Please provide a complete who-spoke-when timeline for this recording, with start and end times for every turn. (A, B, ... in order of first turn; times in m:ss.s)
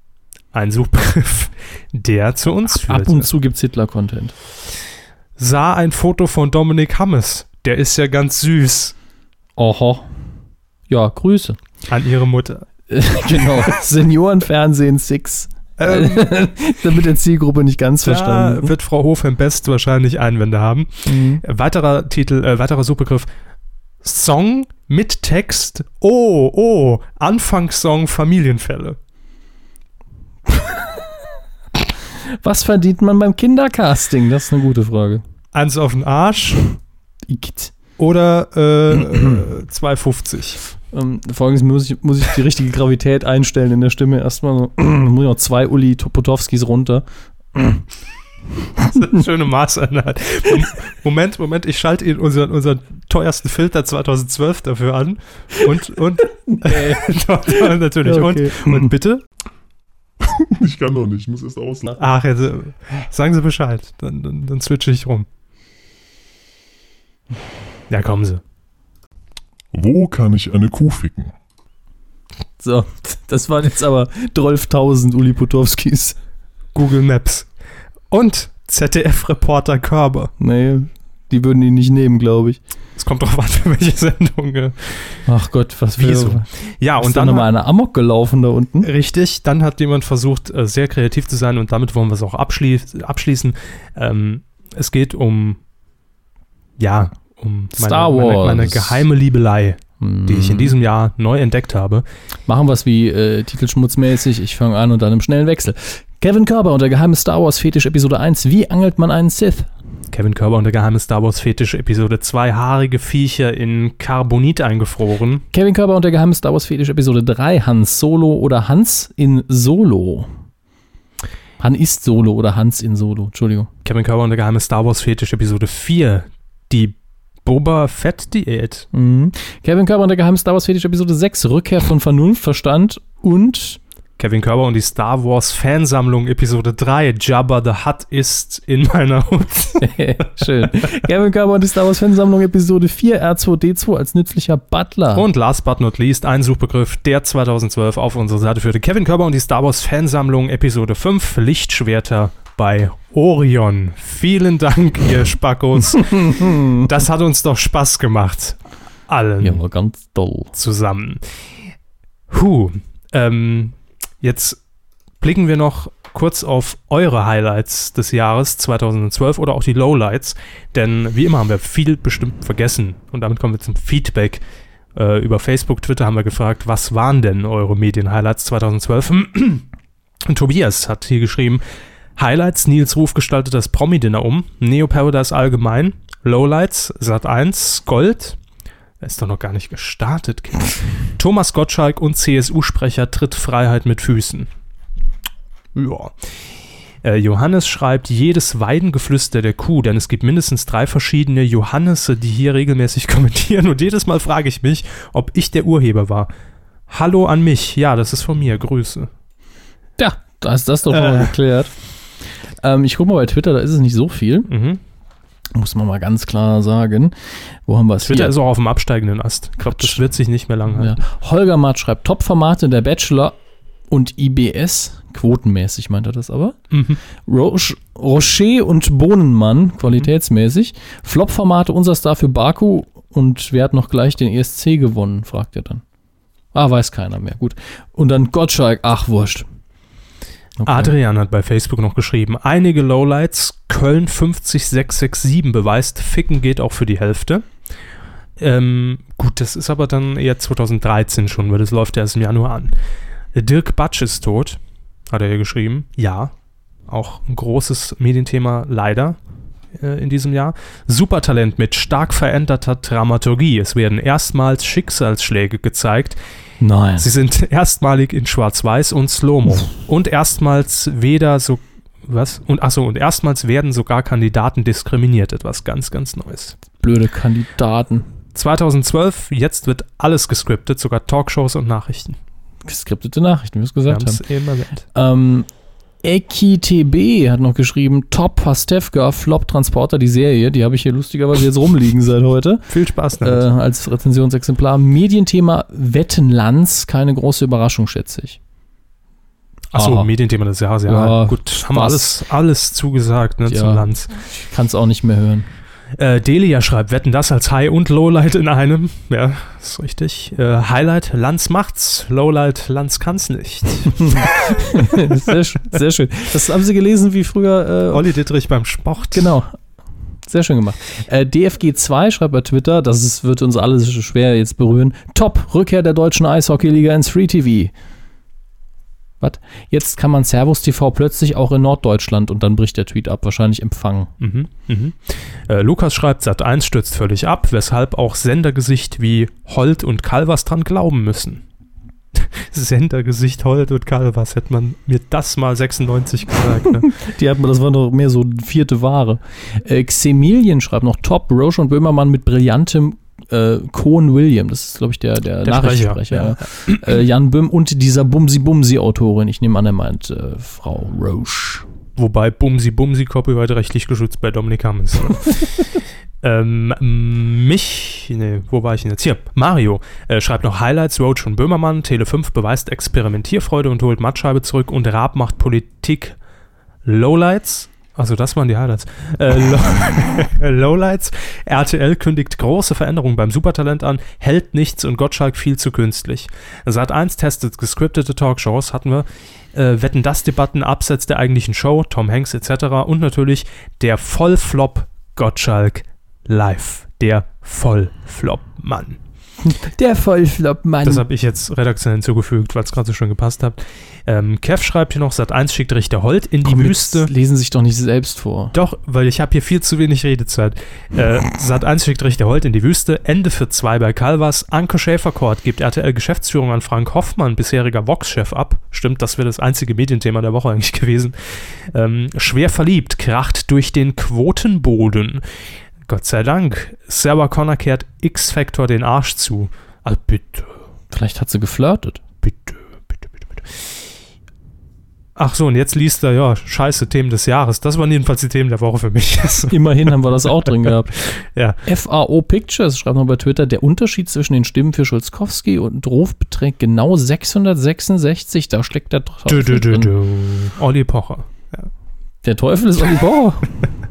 0:00.5-0:03.3 A
0:02.8-0:04.4 B
0:05.4-0:09.0 A
0:09.6-0:10.1 B
0:10.9-0:11.6 B
0:11.9-0:12.7 A
0:12.9-0:18.7 B
0:15.8-0:16.3 A
0:18.0-0:23.3 A
0:21.1-0:21.4 B
0:24.0-0:29.0 A
0:30.5-0:31.0 B
0:31.8-0:35.2 B
0:35.5-0:36.7 A
0:37.3-0:37.7 B
0:38.0-0:40.6 A
0:40.9-0:47.8 B
0:48.8-0:59.2 A
0:56.5-0:58.9 B
1:00.2-1:02.0 C
1:02.0-1:05.3 A
1:07.9-1:08.4 A
1:09.7-1:11.3 C
1:12.6-1:16.2 B
1:16.7-1:17.5 A
1:18.1-1:20.3 A
1:20.4-1:22.6 B
1:23.0-1:25.2 A
1:25.3-1:26.5 B
1:26.0-1:27.5 A
1:27.0-1:28.9 B
1:28.8-1:35.6 A
1:36.8-1:42.0 A
1:37.8-1:39.0 B
1:40.0-1:40.8 B
1:42.5-1:49.7 B
1:50.1-1:55.4 A
1:55.5-2:00.3 B
2:01.6-2:03.7 B
2:03.8-2:08.9 A
2:08.9-2:13.8 B
2:14.2-2:20.6 A
2:19.8-2:25.3 B
2:25.1-2:39.6 A
2:35.9-2:36.9 B
2:39.4-2:40.5 B
2:40.5-2:41.2 A
2:42.3-2:44.6 A
2:45.2-2:54.4 A
2:55.0-2:59.7 A
3:00.3-3:01.6 A
3:02.2-3:08.4 A
3:09.0-3:14.5 A
3:15.8-3:16.1 A
3:17.0-3:26.3 A
3:26.9-3:29.1 A
3:30.0-3:31.7 B
3:30.9-3:31.3 A
3:32.6-3:34.5 B
3:34.5-3:34.8 A
3:35.5-3:38.4 B
3:38.0-3:41.0 A
3:39.6-3:40.0 B
3:40.7-3:43.4 B
3:43.9-3:46.6 B
3:46.7-3:47.0 A
3:47.2-3:55.8 B
3:56.5-3:59.5 B
4:00.6-4:00.9 B
4:00.7-4:07.5 A
4:08.4-4:12.8 A
4:13.3-4:16.3 A
4:16.9-4:19.2 A
4:19.8-4:26.2 A
4:26.6-4:27.1 B
4:27.0-4:36.6 A
4:36.8-4:38.1 B
4:38.4-4:42.2 A
4:42.6-4:44.2 B
4:43.9-4:44.9 A
4:44.9-4:45.5 B
4:46.0-4:52.6 B
4:52.7-4:53.4 A
4:53.2-4:58.4 B
4:59.7-5:04.1 A
4:59.8-5:00.1 B
5:00.9-5:02.2 B
5:03.5-5:05.5 B
5:06.0-5:15.3 A
5:13.9-5:18.0 B
5:17.9-5:19.3 A
5:19.1-5:19.6 B
5:20.3-5:27.7 B
5:29.2-5:34.1 B
5:34.2-5:41.4 A
5:42.2-5:46.9 A
5:46.8-6:01.6 B
5:55.4-5:56.9 A
6:02.0-6:05.4 A
6:06.2-6:16.2 A
6:16.8-6:39.0 A
6:39.4-6:41.1 B
6:40.8-6:47.1 A
6:46.4-6:48.5 B
6:48.5-7:05.2 A
7:05.9-7:10.6 A
7:10.9-7:12.0 B
7:12.2-7:13.1 A
7:15.2-7:19.6 A
7:19.5-7:20.9 B
7:20.2-7:21.6 A
7:21.6-7:29.9 B
7:29.3-7:31.7 A
7:32.2-7:33.7 B